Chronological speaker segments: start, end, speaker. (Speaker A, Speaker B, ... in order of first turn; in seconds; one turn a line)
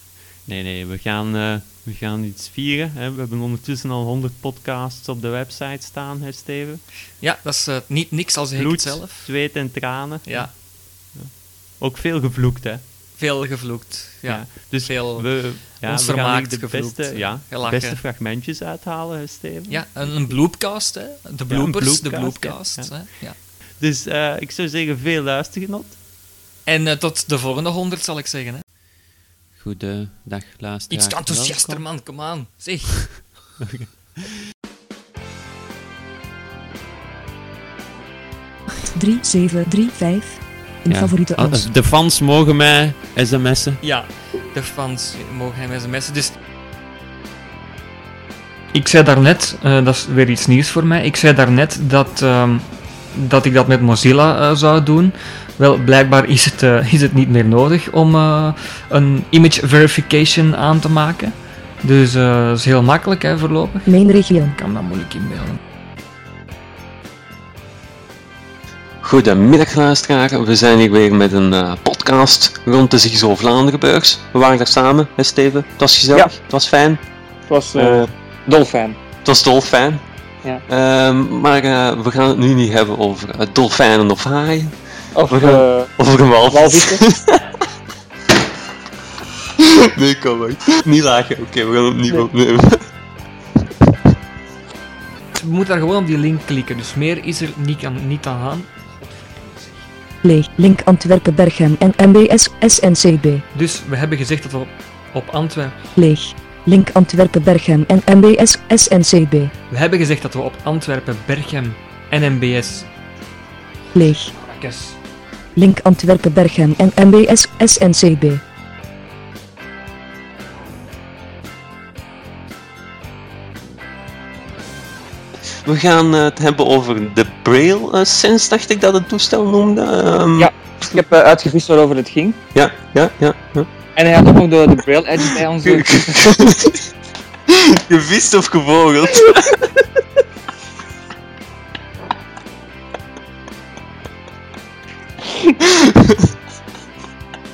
Speaker A: 0.5-6.8
Speaker B: 7.2-9.3
Speaker A: 8.6-10.6
Speaker B: 10.2-10.6
Speaker A: 11.1-12.8
Speaker B: 13.2-18.0
Speaker A: 14.2-19.9
Speaker B: 19.7-23.4
Speaker A: 21.5-23.0
Speaker A: 23.8-26.0
Speaker B: 26.7-28.6
Speaker A: 29.6-31.9
Speaker B: 30.9-33.2
Speaker C: 38.9-41.7
Speaker A: 40.9-43.8
Speaker B: 43.8-46.3
Speaker B: 48.7-65.6
Speaker C: 63.9-64.6
Speaker D: 69.0-77.0
Speaker B: 77.5-77.9
Speaker E: 77.5-79.0
Speaker D: 77.8-78.1
Speaker D: 79.2-80.0
Speaker D: 80.7-84.8
Speaker E: 85.2-85.8
Speaker D: 85.3-87.4
Speaker E: 86.5-87.0
Speaker D: 89.6-92.8
Speaker B: 95.3-99.9
Speaker C: 100.2-103.4
Speaker B: 103.5-105.8
Speaker C: 106.0-109.5
Speaker B: 109.7-112.9
Speaker C: 113.9-114.3
Speaker B: 114.0-115.0
Speaker C: 115.6-118.4
Speaker D: 125.7-131.0
Speaker E: 130.4-132.4
Speaker D: 132.5-133.7
Speaker E: 134.0-136.2
Speaker D: 135.3-136.8
Speaker D: 137.5-139.7